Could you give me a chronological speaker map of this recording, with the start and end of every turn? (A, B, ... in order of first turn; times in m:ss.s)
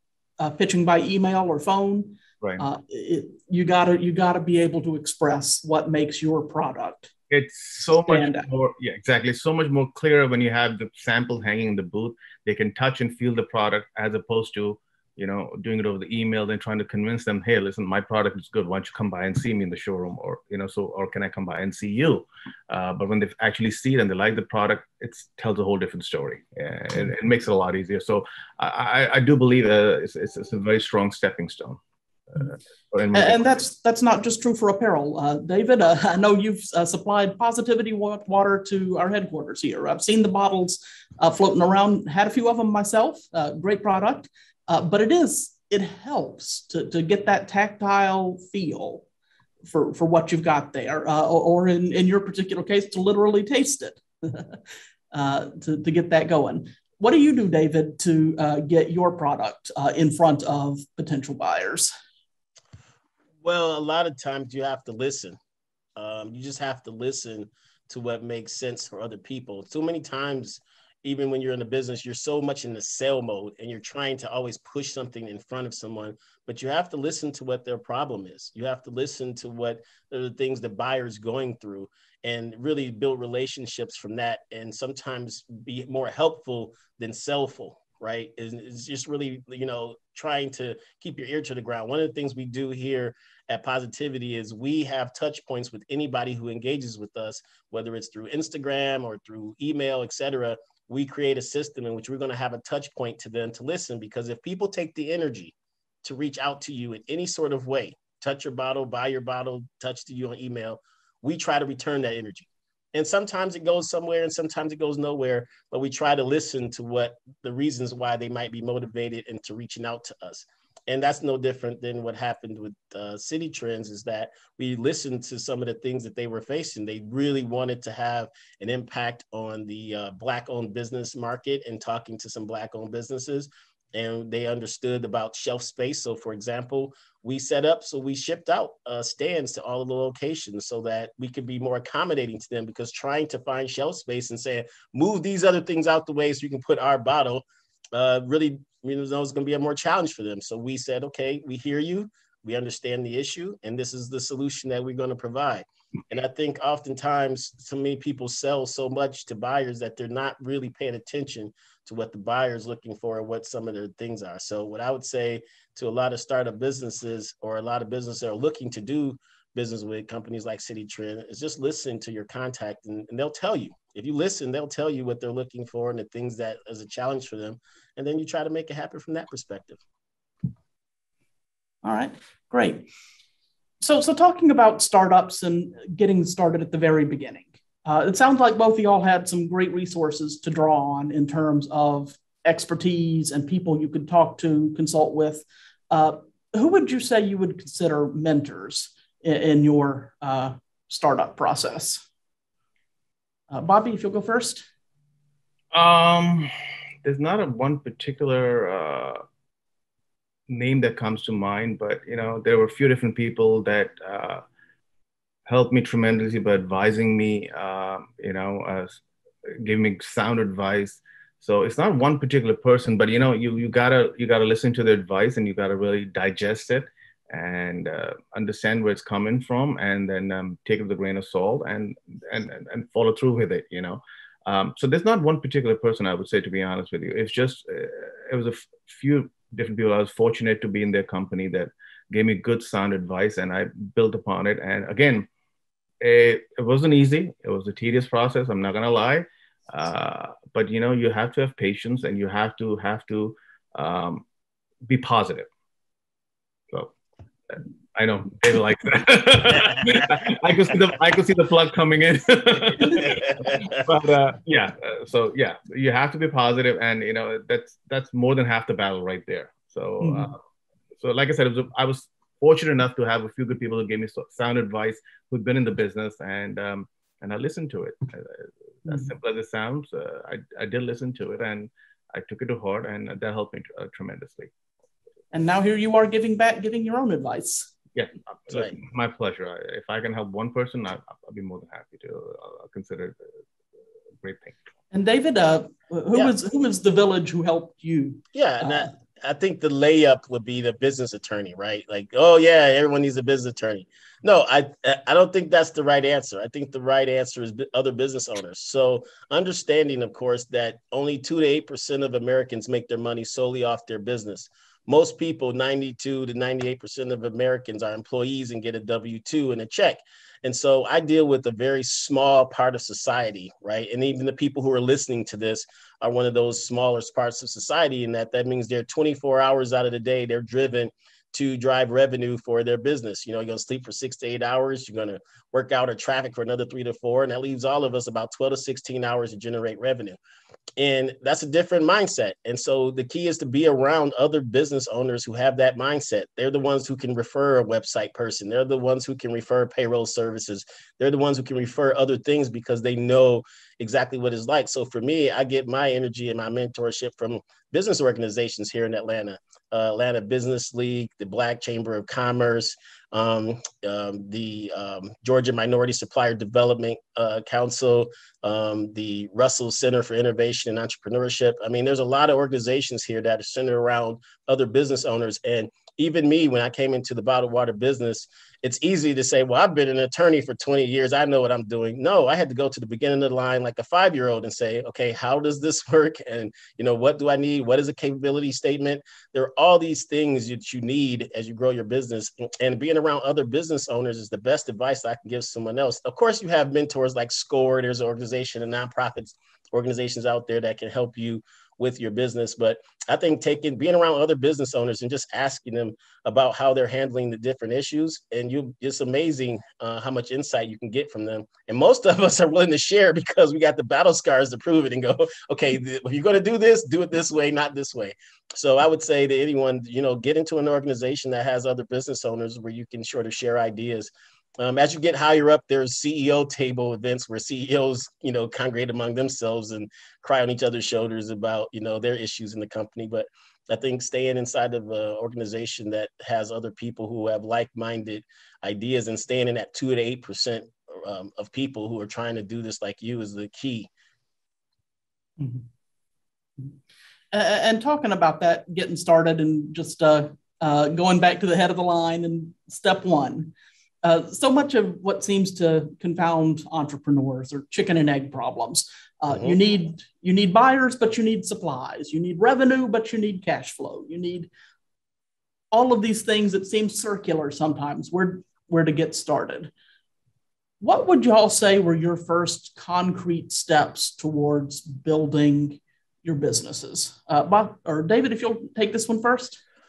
0:00.4-0:07.1 A
0:07.3-0:31.8 B
0:08.1-0:08.5 A
0:32.3-0:33.6 B
0:33.1-0:49.0 A
0:49.7-0:54.6 A
0:55.1-1:01.9 A
1:03.4-1:05.4 C
1:06.0-2:59.8 C
3:01.8-3:02.9 A
3:03.8-3:22.0 A
3:23.5-3:24.6 A
3:25.7-3:26.5 B
3:27.0-3:29.2 B
3:30.5-3:34.4 B
3:35.5-3:39.0 B
3:39.6-4:05.3 B
4:06.0-4:14.2 B
4:14.8-4:15.5 B
4:17.5-4:30.4 B
4:19.6-4:20.2 C
4:22.8-4:23.1 A
4:23.0-4:23.8 C
4:30.0-4:30.3 A
4:31.0-4:44.5 B
4:45.3-4:47.7 A
4:48.0-4:53.2 B
4:48.5-4:48.8 C
4:54.2-4:54.6 B
4:54.9-4:58.9 A
4:58.3-5:40.2 C
5:40.8-7:23.9 C
7:25.4-7:25.6 A
7:27.3-7:33.5 A
7:34.0-7:44.5 A
7:39.3-7:39.6 C
7:45.7-7:49.7 A
7:50.8-7:59.6 A